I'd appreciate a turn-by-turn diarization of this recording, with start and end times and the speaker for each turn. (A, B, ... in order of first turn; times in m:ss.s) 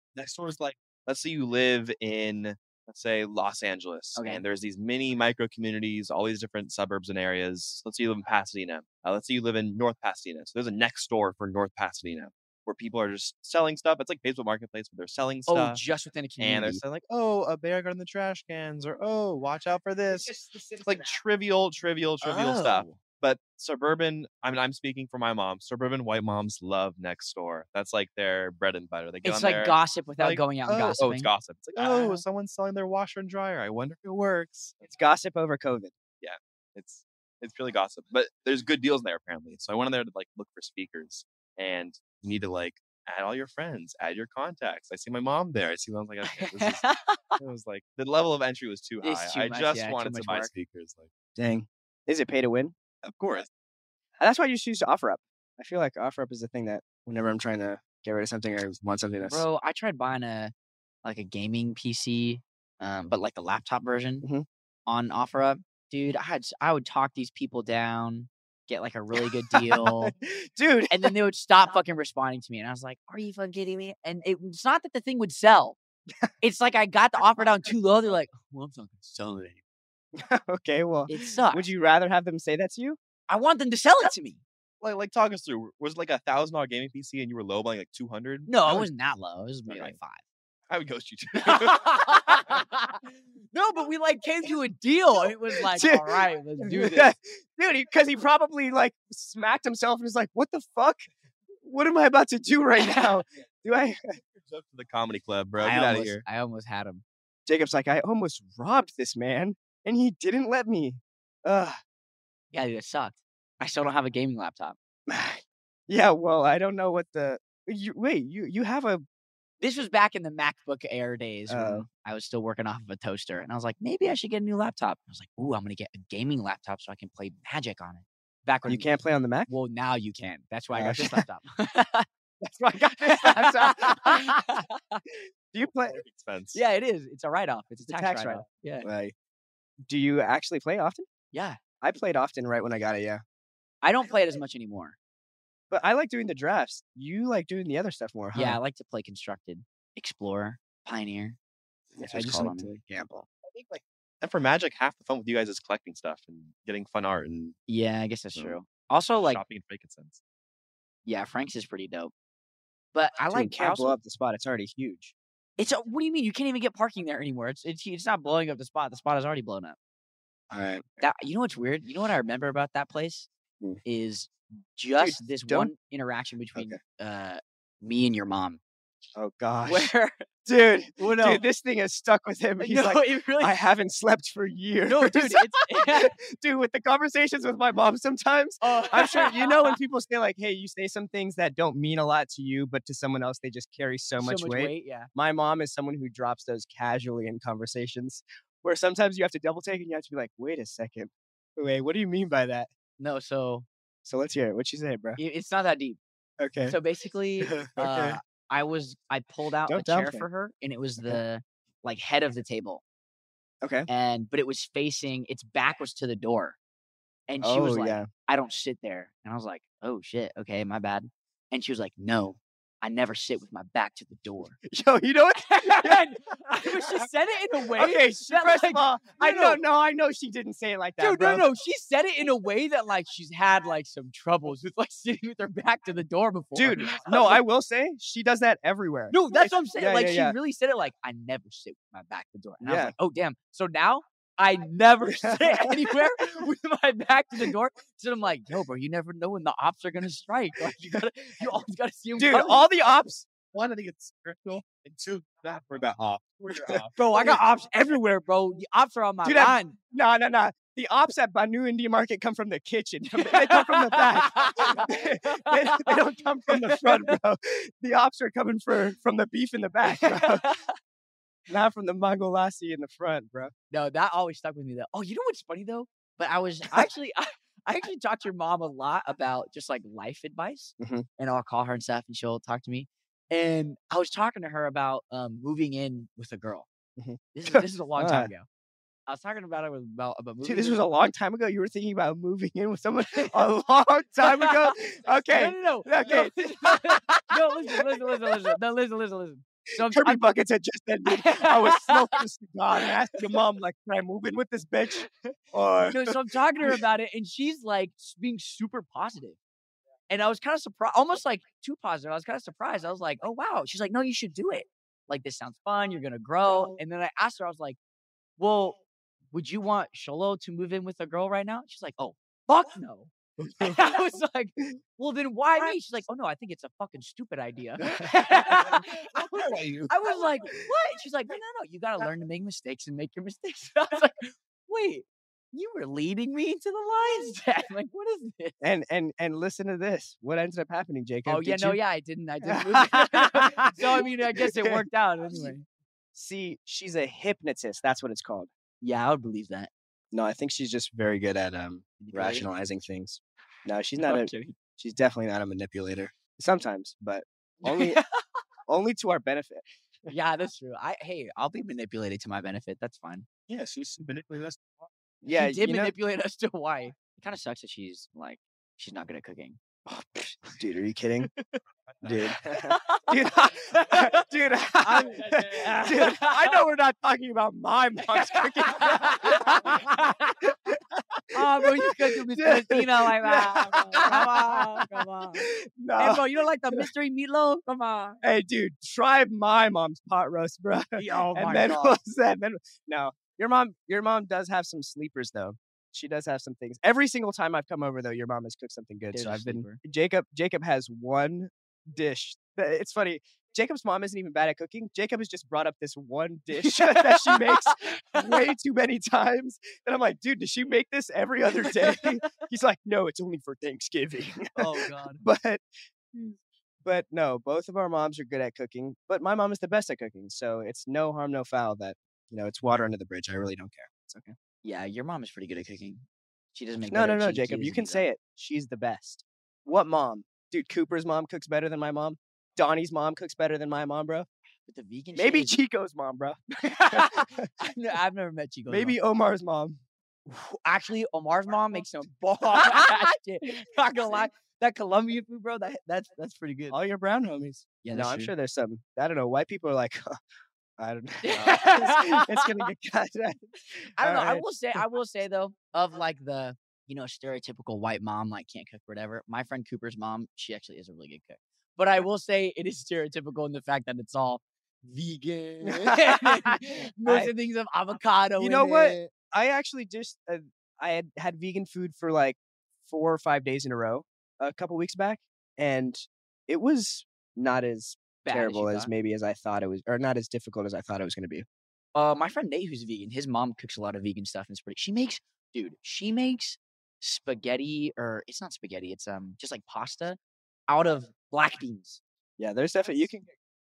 0:00.1-0:15.8 A
0:04.1-0:04.4 B
0:15.5-0:16.8 B
0:16.4-0:34.8 A
0:22.2-0:23.0 B
0:29.2-0:31.3 B
0:31.8-0:32.2 C
0:31.8-0:32.2 B
0:34.8-0:35.9 C
0:36.2-0:51.1 A
0:46.3-0:47.4 B
0:49.0-0:50.5 B
0:51.4-0:52.7 C
0:53.0-0:53.5 A
0:54.2-0:59.4 C
0:59.2-1:00.5 B
1:01.0-1:04.2 B
1:04.9-1:10.1 B
1:09.5-1:11.1 C
1:10.9-1:15.8 B
1:16.4-1:19.6 B
1:20.1-1:23.0 C
1:21.1-1:21.7 B
1:23.3-1:24.4 B
1:24.8-1:28.9 A
1:28.5-1:30.2 B
1:29.7-1:29.9 A
1:30.7-1:32.6 A
1:31.4-1:37.1 B
1:35.6-1:41.1 C
1:41.6-1:44.0 C
1:44.4-1:46.2 A
1:45.6-1:47.0 B
1:47.5-1:51.8 C
1:52.5-1:54.8 B
1:55.1-1:59.0 C
1:59.6-2:08.9 B
2:01.5-2:01.9 C
2:08.7-2:09.5 C
2:09.5-2:12.1 B
2:10.7-2:11.2 C
2:12.4-2:14.4 C
2:13.0-2:15.0 B
2:15.5-2:16.0 C
2:15.9-2:16.6 A
2:16.5-2:18.9 B
2:17.8-2:19.1 C
2:19.9-2:21.1 C
2:21.3-2:21.6 B
2:21.8-2:23.2 C
2:23.8-2:25.0 B
2:25.7-2:28.6 C
2:28.3-2:31.4 B
2:32.0-2:33.2 C
2:32.0-2:32.7 B
2:33.4-2:37.6 A
2:37.7-2:39.4 B
2:39.2-2:40.2 A
2:41.0-2:42.1 B
2:42.9-2:44.0 B
2:43.3-2:45.1 C
2:45.6-2:49.8 B
2:50.5-2:50.8 C
2:51.0-2:53.3 B
2:53.8-2:58.6 B
2:55.0-2:55.7 C
2:59.2-2:59.9 C
2:59.6-3:00.2 B
3:00.4-3:22.7 C
3:01.0-3:01.4 B
3:02.6-3:03.6 B
3:04.9-3:06.1 B
3:08.6-3:09.8 B
3:14.2-3:15.1 B
3:23.0-3:23.7 B
3:24.0-3:25.2 C
3:25.2-3:26.0 B
3:26.4-3:26.8 C
3:26.6-3:32.8 B
3:27.4-3:28.2 C
3:29.6-3:30.3 C
3:33.6-3:33.9 C
3:33.9-3:36.6 B
3:37.3-3:44.6 B
3:37.4-3:38.1 C
3:44.7-3:47.0 C
3:45.4-3:49.6 B
3:47.7-3:51.4 C
3:51.0-3:57.4 B
3:56.5-4:00.4 C
3:59.1-4:12.6 B
4:02.6-4:02.9 C
4:05.0-4:06.4 C
4:12.2-4:13.3 C
4:13.5-4:17.0 A
4:16.5-4:17.4 C
4:16.9-4:19.8 B
4:19.2-4:30.5 C
4:23.1-4:26.0 B
4:26.5-4:27.1 B
4:29.8-4:30.7 B
4:31.5-4:33.5 C
4:33.7-4:46.7 B
4:40.8-4:41.0 C
4:47.0-4:48.3 C
4:47.3-4:48.5 B
4:49.1-4:50.8 B
4:50.4-4:58.4 C
4:53.1-4:53.5 B
4:54.2-4:54.7 B
4:55.2-5:00.2 B
4:59.7-5:06.8 C
5:01.0-5:02.2 B
5:05.9-5:09.4 B
5:10.1-5:17.8 B
5:18.4-5:18.8 B
5:19.3-5:38.6 B
5:23.4-5:24.0 C
5:27.8-5:29.0 C
5:29.5-5:29.9 A
5:29.6-5:30.1 C
5:38.6-5:41.8 C
5:41.2-5:45.6 B
5:42.4-5:45.5 C
5:46.1-5:48.5 C
5:48.8-5:49.7 B
5:50.1-5:58.0 C
5:52.0-5:52.5 B
5:54.0-5:54.5 B
5:57.6-5:58.1 B
5:58.7-6:00.1 C
6:00.1-6:03.3 B
6:03.5-6:04.9 A
6:05.2-6:05.9 C
6:05.3-6:09.6 B
6:09.9-6:11.3 C
6:12.0-6:12.2 A
6:12.0-6:19.8 C
6:12.5-6:14.2 B
6:14.8-6:16.6 B
6:18.0-6:20.4 B
6:20.4-6:26.9 C
6:21.3-6:28.2 B
6:28.2-7:04.4 C
6:31.0-6:32.0 B
6:39.1-6:39.8 B
6:46.6-6:48.4 B
6:51.7-6:52.1 B
6:54.6-6:55.2 B
7:04.6-7:08.1 B
7:06.9-7:14.3 C
7:14.7-7:15.6 B
7:15.1-7:17.5 C
7:16.6-7:19.0 B
7:18.7-7:19.8 C
7:20.3-7:26.8 B
7:26.7-7:30.1 C
7:27.8-7:28.3 B
7:30.8-7:34.8 C
7:31.2-7:32.7 B
7:31.3-7:31.6 A
7:34.0-7:49.0 B
7:45.6-7:47.3 C
7:48.4-8:01.4 C
7:58.2-7:58.9 B
8:01.9-8:10.2 B
8:10.7-8:12.0 B
8:12.4-8:13.3 C